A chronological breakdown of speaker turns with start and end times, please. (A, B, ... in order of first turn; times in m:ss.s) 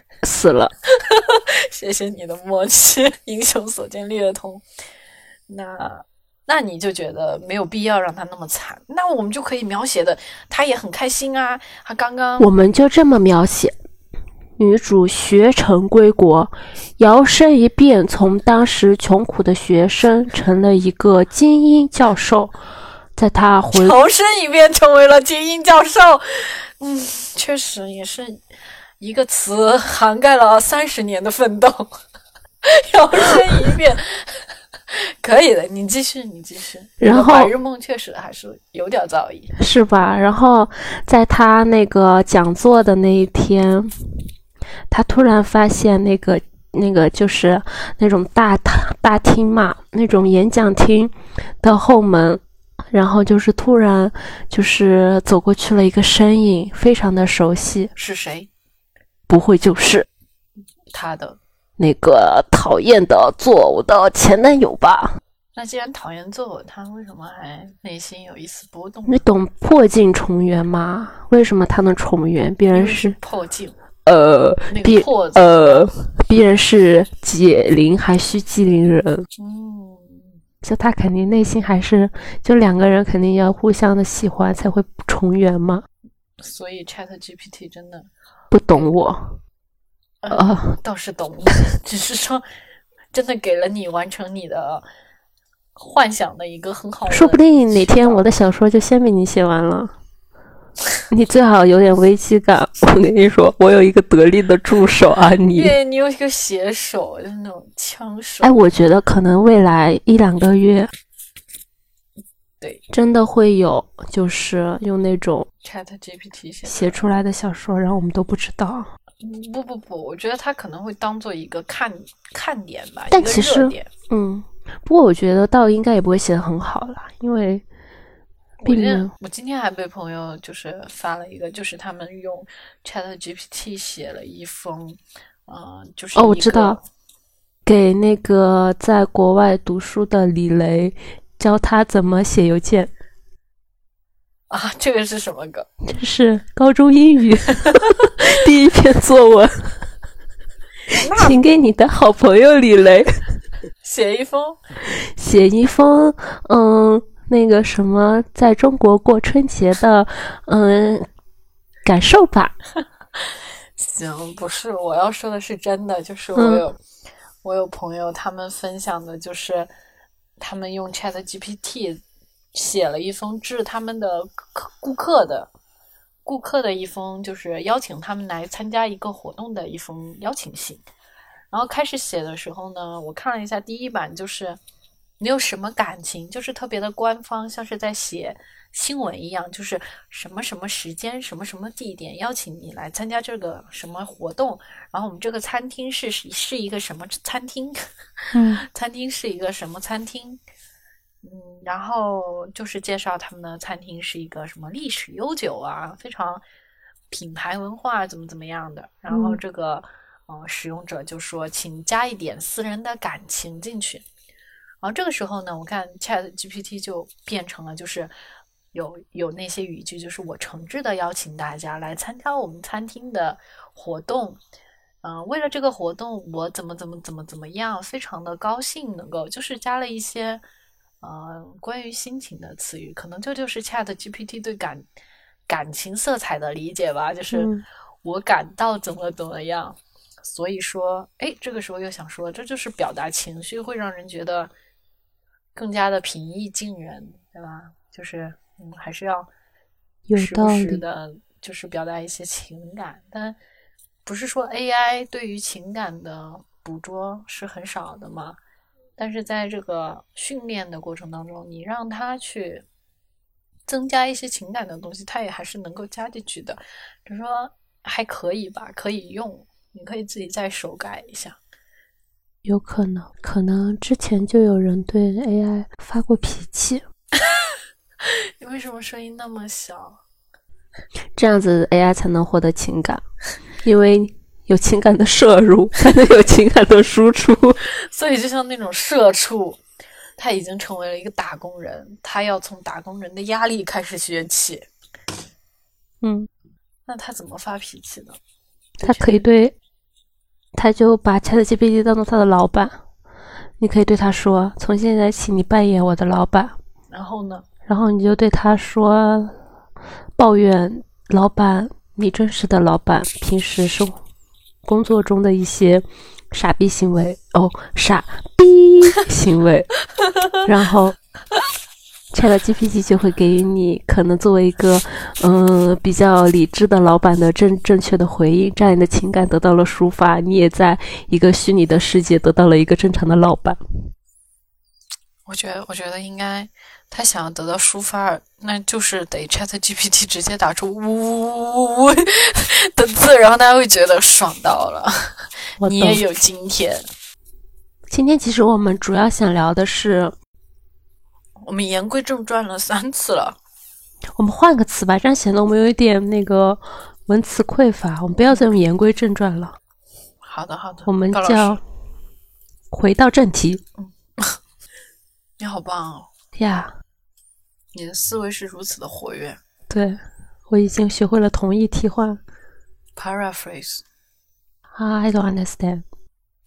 0:00.2-0:00.7 A
0:00.9-0:04.6 B
0:05.5-0:12.5 B
0:12.4-0:13.7 A
0:14.6-0:22.5 A
0:23.2-0:24.0 A
0:23.7-0:28.4 B
0:29.0-0:31.9 B
0:32.6-0:34.4 B
0:34.9-0:39.5 B
0:37.0-0:37.5 A
0:39.6-0:44.2 A
0:44.9-0:57.9 A
0:58.0-0:58.5 B
0:59.3-1:00.1 A
1:00.9-1:01.4 B
1:01.8-1:05.2 A
1:05.6-1:09.2 B
1:09.1-1:13.2 A
1:12.7-1:13.8 B
1:14.1-1:19.3 A
1:14.7-1:15.9 B
1:19.4-1:20.4 B
1:20.6-1:25.8 A
1:26.4-1:28.1 B
1:28.5-1:29.4 A
1:30.2-1:32.4 B
1:30.3-1:30.8 A
1:33.1-1:34.8 B
1:35.8-1:38.2 B
1:37.1-1:39.9 A
1:41.1-1:45.7 A
1:45.5-1:48.6 B
1:48.4-1:50.9 A
1:52.9-1:55.5 A
1:55.6-1:57.1 B
1:56.7-1:58.9 A
1:59.2-2:03.9 B
2:03.1-2:07.6 A
2:08.6-2:16.8 B
2:08.7-2:09.1 A
2:16.2-2:16.8 A
2:17.7-2:22.9 A
2:24.5-2:25.7 B
2:25.8-2:29.8 A
2:30.9-2:33.2 A
2:31.0-2:31.4 B
2:33.8-2:34.6 B
2:35.0-2:41.1 A
2:41.8-2:42.6 A
2:43.8-2:46.8 B
2:46.4-2:46.6 A
2:47.4-2:49.7 B
2:50.4-2:52.0 B
2:52.5-2:55.5 B
2:56.2-3:00.8 B
3:01.5-3:04.6 B
3:05.2-3:17.8 B
3:18.3-3:18.6 A
3:18.5-3:20.4 B
3:21.2-3:26.4 B
3:27.1-3:34.0 B
3:29.1-3:29.4 A
3:34.8-3:38.1 B
3:38.7-3:44.4 B
3:45.0-3:50.4 B
3:51.0-3:54.8 B
3:55.5-3:57.5 B
3:57.3-3:57.6 A
3:58.0-4:04.5 B
4:05.6-4:09.3 B
4:10.1-4:10.8 A
4:10.2-4:13.4 B
4:14.1-4:18.4 B
4:19.0-4:22.6 B
4:23.7-4:31.4 B
4:32.4-4:36.8 A
4:37.2-4:37.4 B
4:38.0-4:40.0 B
4:41.2-4:43.0 A
4:43.6-4:47.6 A
4:47.9-4:49.6 B
4:50.2-4:54.7 B
4:56.0-4:56.3 A
4:56.9-4:58.2 B
4:58.8-4:59.2 B
4:58.8-4:59.5 A
5:00.6-5:02.8 A
5:03.6-5:06.6 A
5:06.9-5:07.4 B
5:07.7-5:09.4 A
5:10.2-5:14.0 A
5:14.6-5:19.7 A
5:20.4-5:21.0 A
5:22.1-5:33.6 A
5:35.3-5:46.8 B
5:45.6-5:46.0 A
5:47.9-5:50.1 A
5:51.4-5:53.4 B
5:54.2-5:59.6 A
6:00.2-6:01.6 B
6:00.9-6:01.6 A
6:02.7-6:03.6 A
6:03.8-6:04.4 B
6:05.4-6:06.1 B
6:06.4-6:06.7 A
6:07.7-6:09.4 B
6:09.7-6:12.2 A
6:13.0-6:13.8 B
6:14.8-6:15.8 A